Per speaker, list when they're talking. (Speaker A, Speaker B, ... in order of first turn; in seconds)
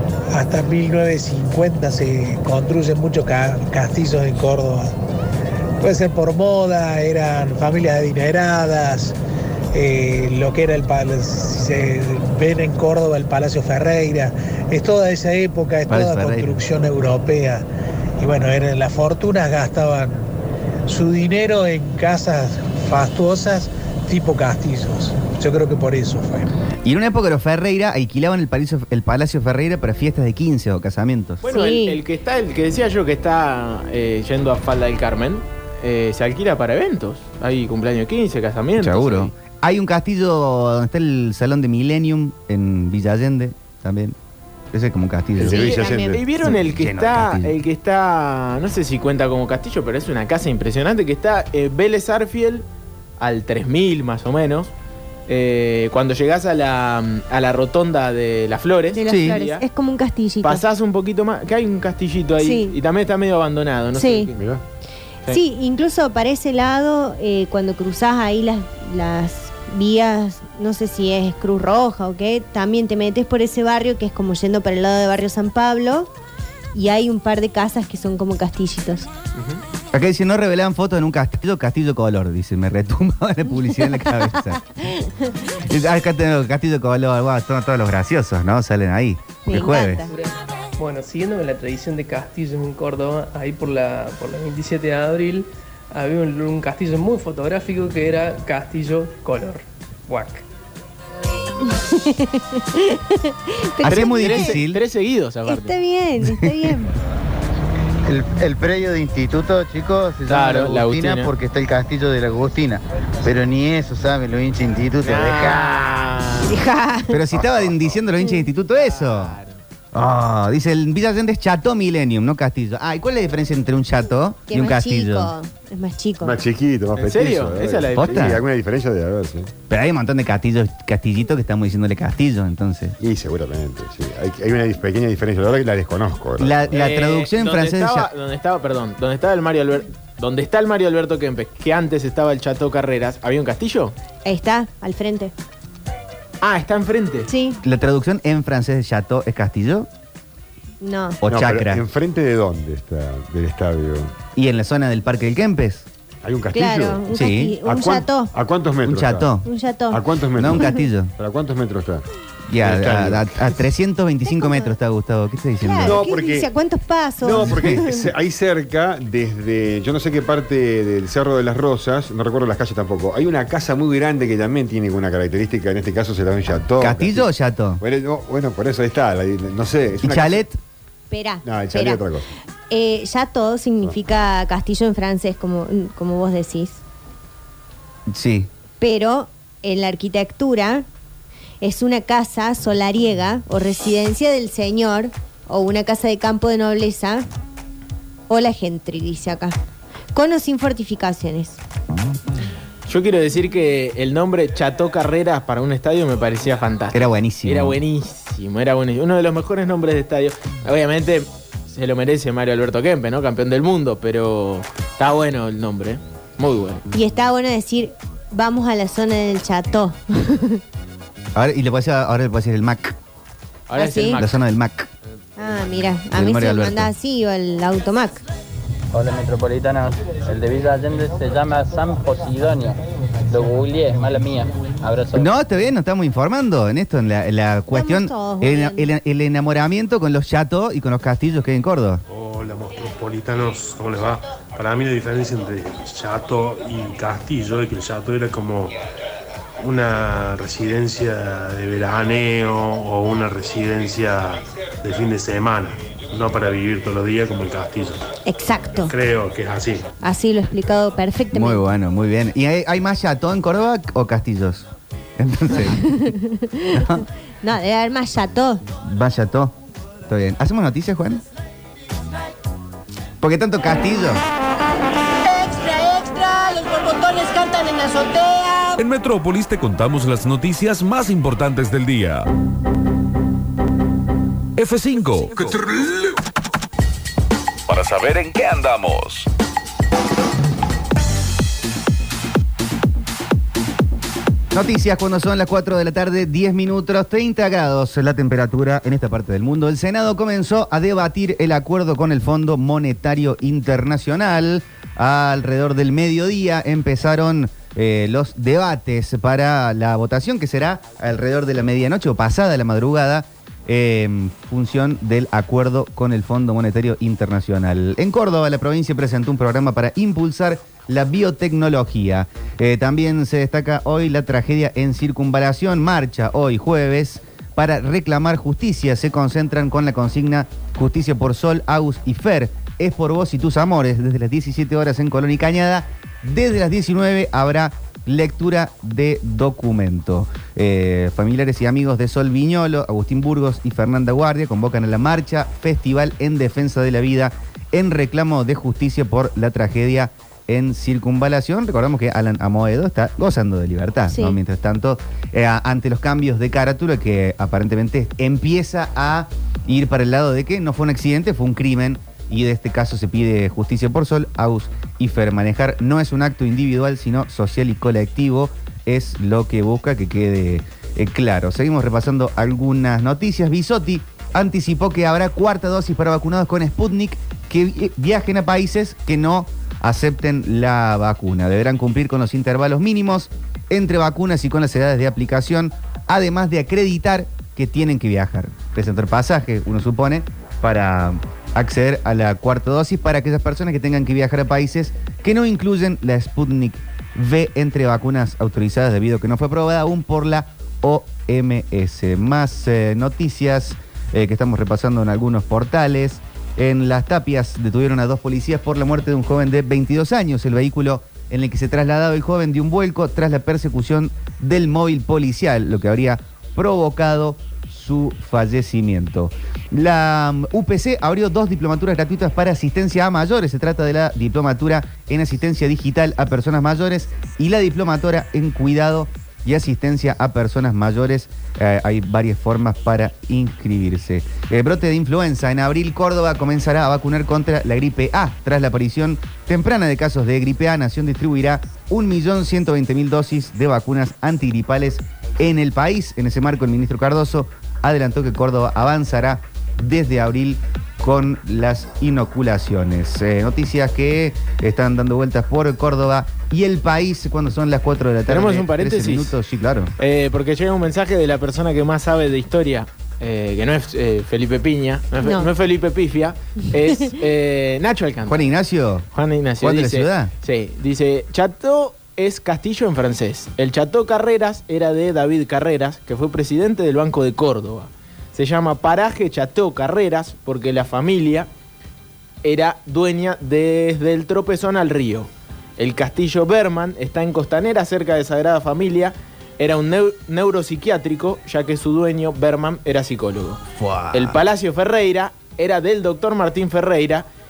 Speaker A: 0.3-4.9, 5.8-9.2, 9.7-17.7, 18.2-20.3, 20.9-26.5
Speaker B: 15.9-16.6, 26.8-31.4, 38.8-44.2, 44.7-45.8, 46.4-47.6, 59.1-59.4, 79.9-84.6, 85.6-90.1, 103.8-104.8, 106.3-106.8, 117.1-119.4, 119.9-125.3, 128.0-128.4, 129.7-133.0, 136.4-138.1, 147.6-149.9, 151.2-151.8, 154.3-155.9, 157.1-157.6, 158.8-159.5, 160.4-161.1, 162.5-166.0, 167.4-167.8, 176.8-177.8, 180.0-180.6, 188.1-188.5, 206.9-207.8, 221.3-222.9, 224.2-224.9, 226.1-226.9, 235.1-242.0, 261.3-266.1, 266.7-267.1, 268.8-269.6, 270.1-271.2, 273.2-274.2, 294.5-459.9, 468.3-469.1, 469.6-470.3, 493.8-494.4
Speaker C: 31.4-39.3, 45.4-52.7, 53.2-54.7, 55.3-59.6, 60.4-64.4, 79.4-79.6, 103.8-105.8, 110.3-111.3, 115.0-116.5, 118.7-119.6, 127.0-128.4, 136.7-143.9, 146.4-147.3, 202.9-216.8, 223.7-224.4, 458.3-459.4, 460.0-468.5, 469.1-481.5, 482.4-497.3
Speaker D: 31.5-32.0, 45.8-46.1, 58.9-60.6, 62.4-62.7, 64.0-64.3, 65.3-76.1, 76.7-79.1, 84.7-85.4, 89.5-90.1, 101.6-104.6, 105.5-107.0, 116.5-117.2, 124.5-126.4, 144.2-145.3, 147.3-147.6, 150.8-151.2, 156.5-158.3, 159.4-160.8, 164.3-164.7, 165.6-168.1, 181.1-182.0, 182.7-186.8, 188.8-190.9, 191.6-197.3, 198.3-199.6, 200.1-201.6, 216.9-220.6, 223.8-224.2, 225.4-228.2, 237.7-238.9, 258.2-258.9, 260.0-261.7, 265.6-268.6, 354.1-354.4, 465.2-465.5
Speaker E: 45.4-46.2, 64.4-64.6, 117.4-117.7, 126.2-129.5, 133.0-136.7, 151.3-154.1, 156.2-157.0, 157.6-159.3, 159.9-162.1, 162.6-163.5, 165.8-166.5, 167.2-177.3, 177.8-180.4, 181.4-182.2
Speaker F: 90.1-100.4
Speaker G: 108.1-115.8
Speaker H: 228.9-235.3
Speaker I: 242.1-248.7, 249.6-258.0, 258.9-259.9
Speaker J: 275.4-278.7
Speaker K: 278.8-282.3, 284.6-286.0, 287.7-289.3